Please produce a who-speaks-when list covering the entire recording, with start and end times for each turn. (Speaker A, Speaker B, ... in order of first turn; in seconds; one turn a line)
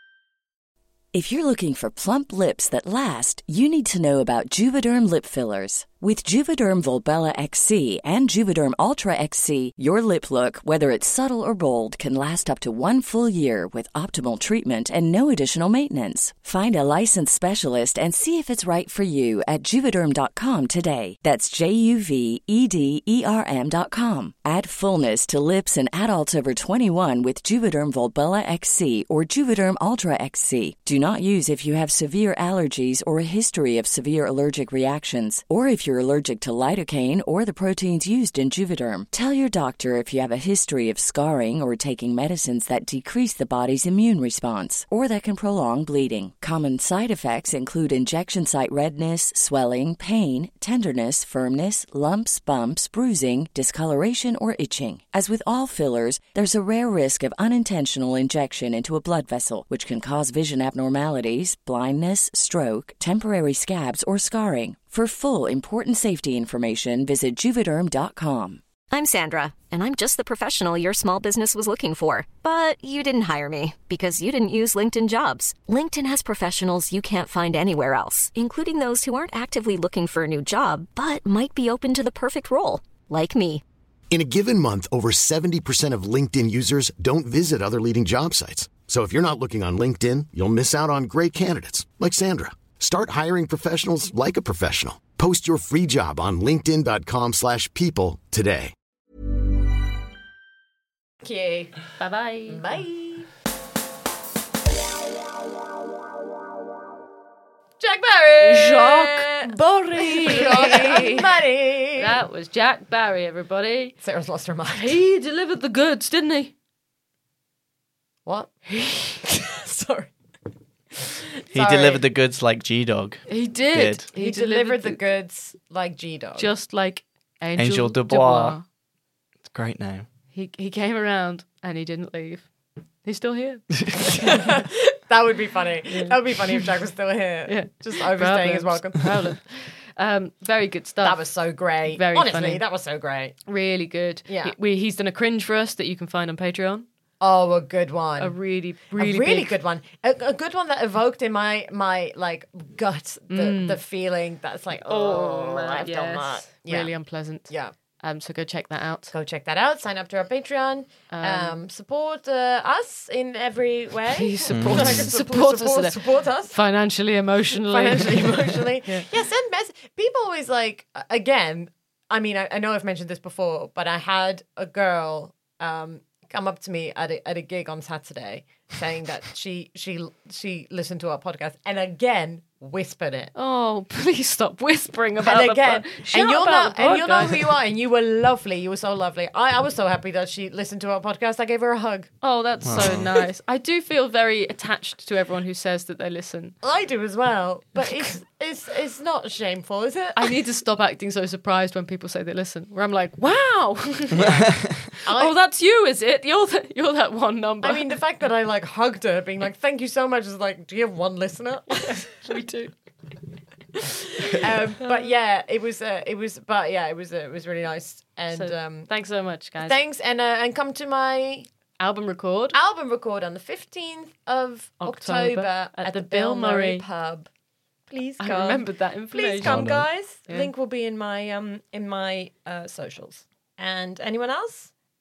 Speaker A: 1.1-68.6
Speaker B: 68.9-83.6
Speaker C: 84.1-98.7
Speaker D: 101.2-101.8
Speaker E: 102.0-102.6
Speaker D: 102.5-103.3
Speaker D: 107.8-112.2
Speaker E: 108.4-111.3
Speaker E: 112.0-114.0
Speaker D: 114.0-115.0
Speaker E: 114.7-116.5
Speaker D: 118.2-120.1
Speaker D: 121.5-122.0
Speaker F: 121.5-124.1
Speaker E: 123.3-125.0
Speaker D: 124.2-126.5
Speaker E: 126.4-128.6
Speaker F: 127.6-128.6
Speaker F: 129.4-130.1
Speaker E: 130.3-134.7
Speaker D: 134.2-139.2
Speaker E: 135.9-136.7
Speaker E: 137.5-142.7
Speaker D: 141.0-143.4
Speaker E: 143.5-146.9
Speaker D: 144.3-144.6
Speaker D: 147.2-156.9
Speaker E: 148.2-149.5
Speaker E: 153.3-153.8
Speaker E: 154.9-159.2
Speaker D: 157.5-157.7
Speaker D: 159.1-166.6
Speaker E: 161.1-161.6
Speaker E: 164.1-169.1
Speaker F: 164.5-165.0
Speaker D: 167.7-183.3
Speaker E: 183.3-187.5
Speaker D: 185.2-192.1
Speaker E: 192.2-196.6
Speaker F: 192.6-193.1
Speaker D: 196.6-200.4
Speaker E: 200.2-207.9
Speaker F: 204.2-204.8
Speaker D: 205.0-205.4
Speaker D: 207.6-212.2
Speaker E: 211.9-212.8
Speaker E: 213.7-214.9
Speaker D: 214.3-221.5
Speaker E: 218.3-219.8
Speaker E: 221.8-222.6
Speaker D: 222.5-227.3
Speaker E: 224.8-226.9
Speaker D: 227.9-234.7
Speaker E: 228.2-230.5
Speaker F: 229.4-229.9